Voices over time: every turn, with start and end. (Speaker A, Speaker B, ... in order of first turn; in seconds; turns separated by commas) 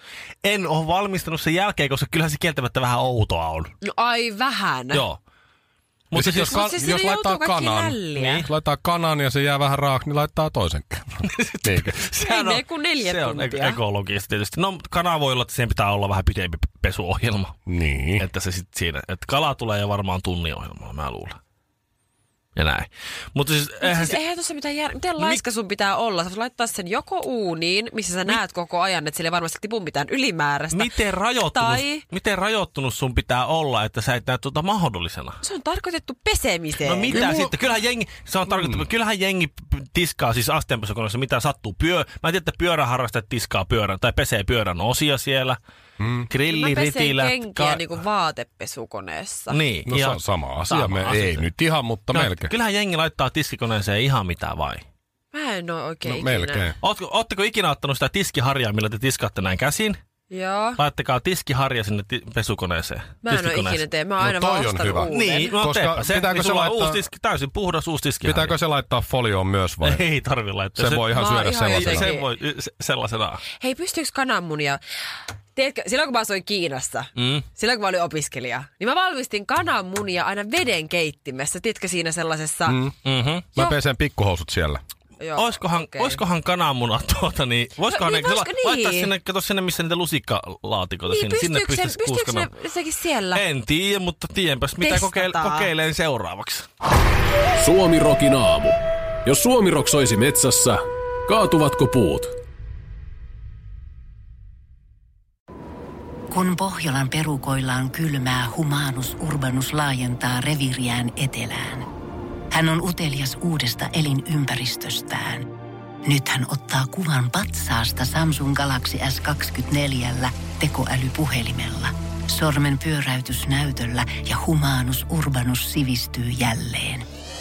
Speaker A: 0.4-3.7, Speaker B: 3.8-5.0, Speaker A: 4.9-5.2, Speaker A: 6.1-6.8, Speaker C: 6.1-12.0, Speaker B: 6.5-8.5, Speaker A: 8.2-8.5, Speaker A: 11.2-17.6, Speaker B: 12.2-13.8, Speaker C: 17.7-18.2, Speaker A: 18.2-21.4, Speaker A: 22.6-24.2, Speaker B: 23.8-30.9, Speaker A: 30.7-35.4, Speaker B: 31.5-32.0, Speaker B: 35.4-37.2, Speaker A: 36.8-45.6, Speaker C: 37.1-37.5, Speaker C: 38.5-38.8, Speaker C: 46.0-46.3, Speaker A: 46.3-48.0, Speaker B: 46.5-49.6, Speaker A: 49.5-51.5, Speaker C: 49.9-52.5, Speaker A: 52.1-54.8, Speaker B: 55.3-56.7, Speaker C: 56.0-56.8, Speaker A: 56.8-60.0, Speaker B: 60.3-60.8, Speaker A: 60.8-63.8, Speaker B: 63.2-65.6, Speaker C: 64.2-67.0, Speaker A: 65.1-68.6, Speaker C: 68.2-70.0, Speaker A: 69.8-73.4, Speaker C: 70.8-72.1, Speaker B: 71.1-72.3, Speaker B: 73.6-74.8, Speaker B: 75.5-82.8, Speaker A: 77.2-77.5, Speaker C: 82.7-83.0, Speaker A: 83.0-83.5, Speaker C: 83.5-84.8, Speaker B: 85.2-86.2, Speaker A: 85.4-92.5, Speaker B: 87.9-89.1, Speaker B: 91.1-93.4, Speaker A: 93.3-96.7, Speaker B: 94.8-95.7, Speaker D: 97.6-102.3, Speaker E: 106.3-111.9, Speaker E: 112.5-115.5, Speaker E: 116.0-127.0